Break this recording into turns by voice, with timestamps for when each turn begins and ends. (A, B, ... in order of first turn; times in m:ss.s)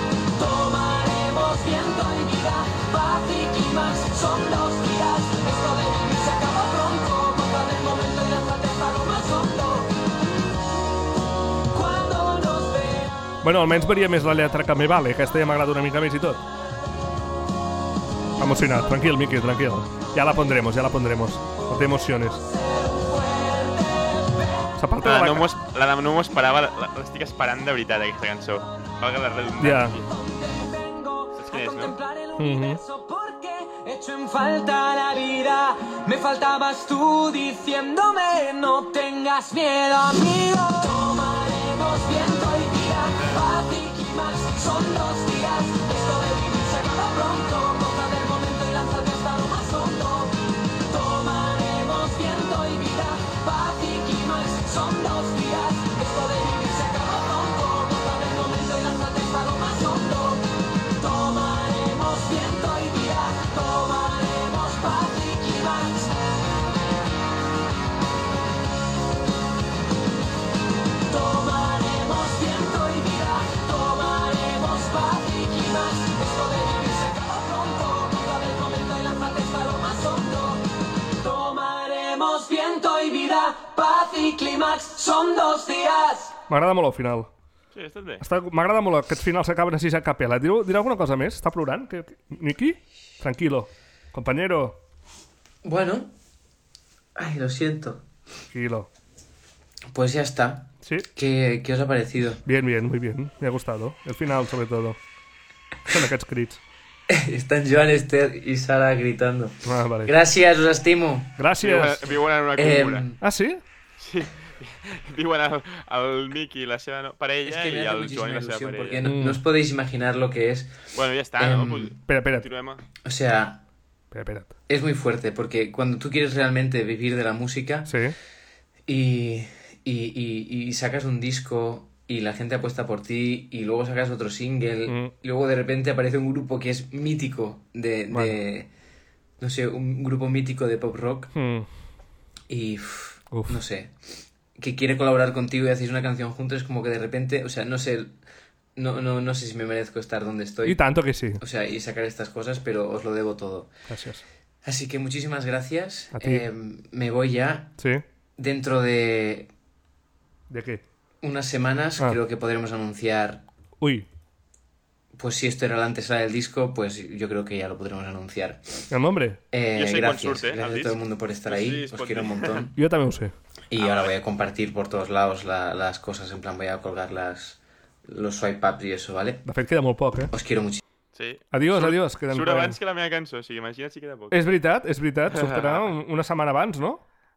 0:00.4-0:09.9 A
0:11.7-0:13.0 A
0:13.4-0:16.4 B
0:18.4-0:22.4 B
0:22.8-0:23.8 A
0:24.8-0:25.5 B
0:25.0-0:30.1 C
0:29.6-0:30.0 B
0:30.8-0:50.3 A
0:31.4-0:32.0 C
0:32.4-0:32.8 B
0:50.9-1:00.4 A
1:01.0-1:06.0 A
1:11.2-1:20.6 A
1:21.2-1:26.3 A
1:26.5-1:27.3 B
1:27.7-1:28.2 C
1:28.2-1:34.8 B
1:35.6-1:36.1 D
1:37.2-1:38.0 D
1:38.5-1:38.9 B
1:39.9-1:42.4 D
1:40.8-1:41.1 B
1:42.4-1:45.0 B
1:45.9-1:46.6 B
1:47.1-1:51.4 D
1:49.7-1:50.2 B
1:51.4-1:52.0 B
1:51.6-1:53.1 C
1:52.6-1:53.2 D
1:53.2-1:53.6 B
1:54.0-1:59.0 C
1:57.4-2:00.8 D
1:59.0-1:59.4 B
2:00.9-2:02.8 C
2:01.4-2:02.0 D
2:02.1-2:02.5 B
2:03.0-2:03.6 D
2:04.1-2:04.5 B
2:04.7-2:07.9 D
2:07.9-2:08.2 B
2:08.9-2:18.7 D
2:14.9-2:15.1 B
2:18.1-2:18.4 B
2:19.4-2:21.3 D
2:21.3-2:21.7 B
2:22.5-2:24.0 D
2:23.3-2:23.6 B
2:24.6-2:28.2 D
2:28.8-2:30.9 D
2:30.6-2:31.4 B
2:31.4-2:33.7 D
2:33.9-2:34.2 B
2:34.6-2:37.7 D
2:36.1-2:36.5 B
2:38.4-2:39.5 D
2:40.5-2:40.8 B
2:41.2-2:43.4 D
2:43.8-2:44.1 B
2:45.2-2:48.6 D
2:48.9-2:49.4 B
2:49.5-2:52.7 D
2:49.8-2:52.7 C
2:52.8-2:53.3 B
2:53.7-2:59.4 D
2:53.8-2:54.2 C
2:59.4-3:00.3 B
3:00.3-3:00.8 D
3:01.1-3:04.4 C
3:01.5-3:02.8 B
3:04.3-3:07.0 B
3:05.3-3:05.9 C